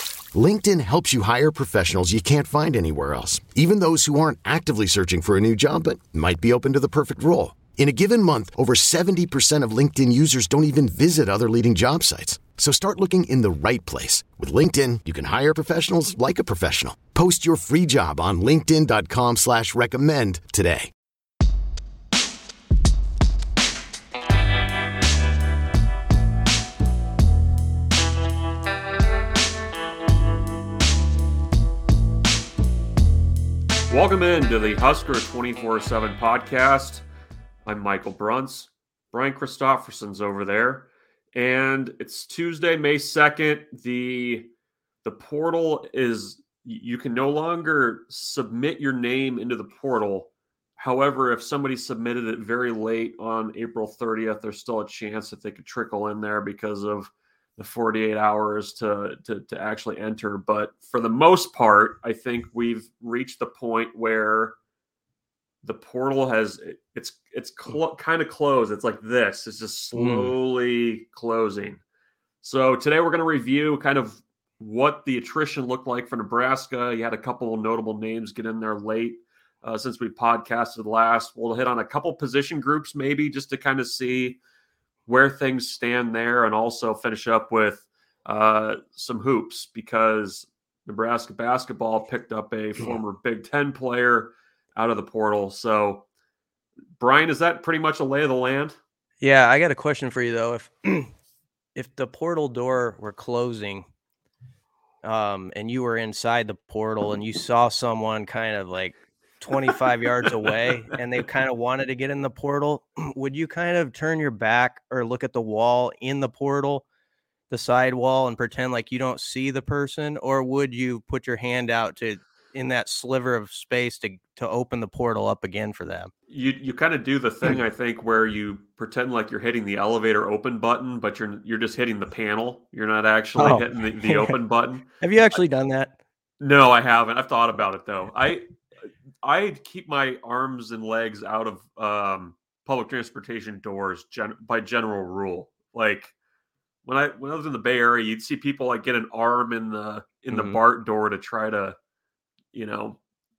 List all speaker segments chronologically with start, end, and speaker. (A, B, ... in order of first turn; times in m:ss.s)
0:00.3-0:20.9 A
0:33.9-0:37.0 B
0:37.6-0:44.5 B
0:45.0-1:04.6 B
1:05.6-1:11.8 B
1:10.0-1:10.3 C
1:12.4-1:24.4 B
1:25.1-1:36.0 B
1:37.0-1:38.8 B
1:39.2-1:41.1 C
1:41.8-1:43.9 C
1:45.0-1:56.8 C
1:57.5-2:06.1 C
2:06.3-2:15.4 B
2:13.4-2:14.4 C
2:15.0-2:15.9 C
2:16.4-2:26.1 B
2:26.8-2:31.8 B
2:30.3-2:30.6 C
2:32.5-2:33.0 B